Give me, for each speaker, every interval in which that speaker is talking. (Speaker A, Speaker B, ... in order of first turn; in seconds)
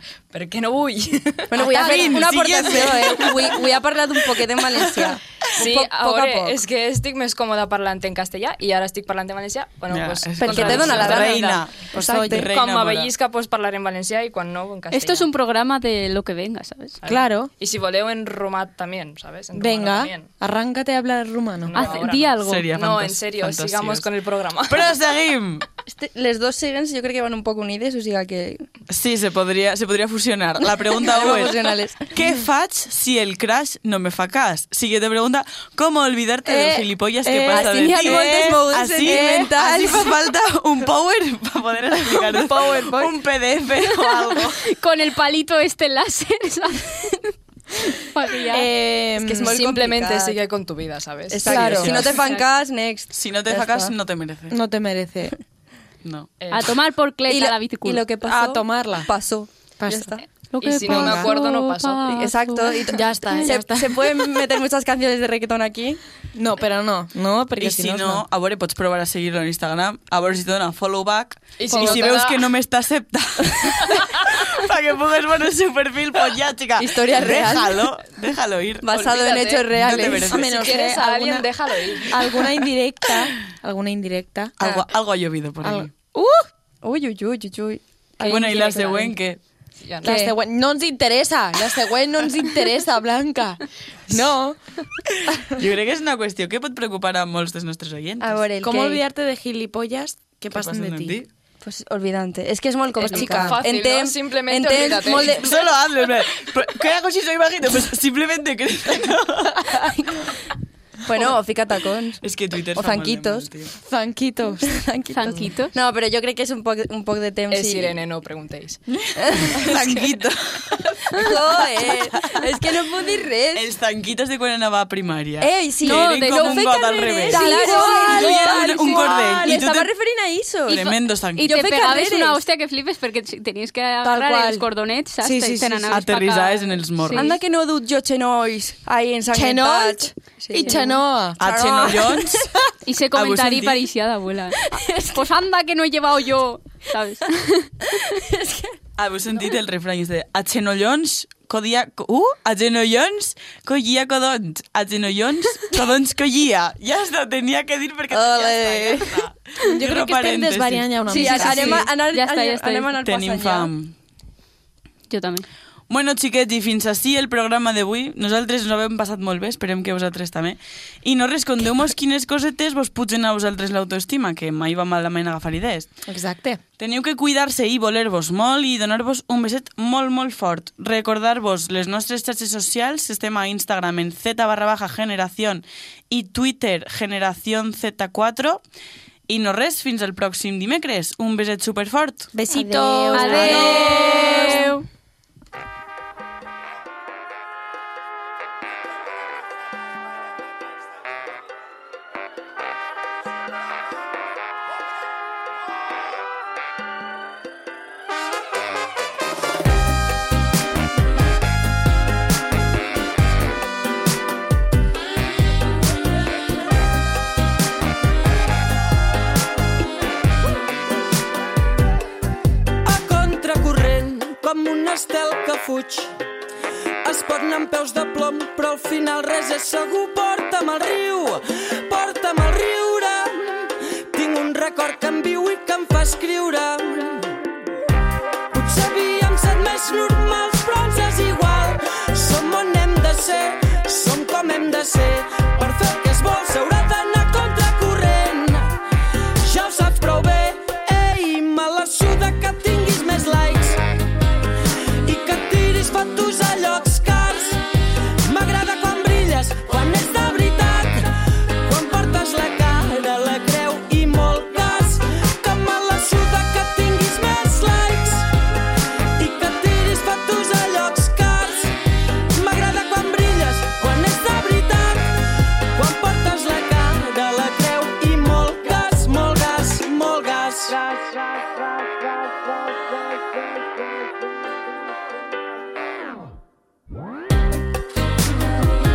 Speaker A: 0.3-2.1, 5.5-11.6, 12.5-15.3, 17.0-20.3, 21.6-24.9, 49.2-52.0, 56.4-56.7, 60.6-62.2, 71.6-72.5, 78.9-79.7, 80.4-82.4, 88.2-89.2, 89.8-90.3, 103.0-105.4, 117.5-118.8
Speaker B: 1.5-6.6, 10.4-12.5, 25.9-28.6, 30.9-32.1, 37.5-40.1, 49.2-50.4, 51.3-53.9, 57.3-60.2, 62.1-66.0, 76.8-77.9, 78.8-80.5, 86.8-88.9, 98.2-99.0, 101.6-105.6, 109.8-110.3, 111.0-112.2, 112.7-113.5, 114.6-117.9, 119.2-120.0, 121.2-123.7, 125.4-132.4, 137.1-142.4, 144.7-145.2, 148.0-148.8, 158.1-159.2, 161.1-163.7, 192.5-194.6
Speaker C: 1.5-3.6, 9.9-13.1, 22.4-24.1, 24.6-25.7, 28.9-44.6, 51.5-52.1, 53.1-54.5, 56.0-56.3, 67.6-80.9, 84.6-85.9, 88.2-89.4, 95.3-98.4, 100.5-101.3, 105.2-109.8, 112.2-113.7, 119.2-122.6, 123.5-129.9, 130.7-131.6, 135.9-137.3, 141.4-142.5, 143.1-143.8, 149.0-161.8, 163.0-163.9, 165.9-175.9, 176.8-188.6, 189.3-192.3
Speaker D: 11.9-12.5, 17.1-17.5, 19.5-22.0, 36.5-38.5, 39.0-39.5, 42.3-43.1, 48.5-49.4, 51.5-52.0, 54.5-55.4, 58.2-59.1, 59.8-60.1, 60.8-61.3, 62.9-64.2, 66.3-68.2, 79.8-81.5, 82.0-84.8, 85.6-86.5, 90.0-94.6, 98.6-101.2, 103.1-103.6, 113.8-114.8, 127.3-129.4, 134.0-134.7, 135.2-136.0, 139.3-141.4, 159.6-161.9, 176.1-176.6, 192.3-194.7
Speaker E: 14.9-17.0, 21.7-22.7, 43.9-47.3, 48.1-48.7, 56.5-58.0, 60.5-63.4, 115.1-115.7, 125.8-128.4, 131.4-137.4, 140.6-141.0, 142.8-147.7, 162.0-162.9, 165.1-165.4, 193.1-194.8
Speaker F: 222.8-226.1, 227.0-237.4, 238.5-248.8, 249.4-253.8, 255.0-257.6, 258.2-261.1, 261.6-268.3, 269.1-271.8, 272.3-275.2, 275.7-281.2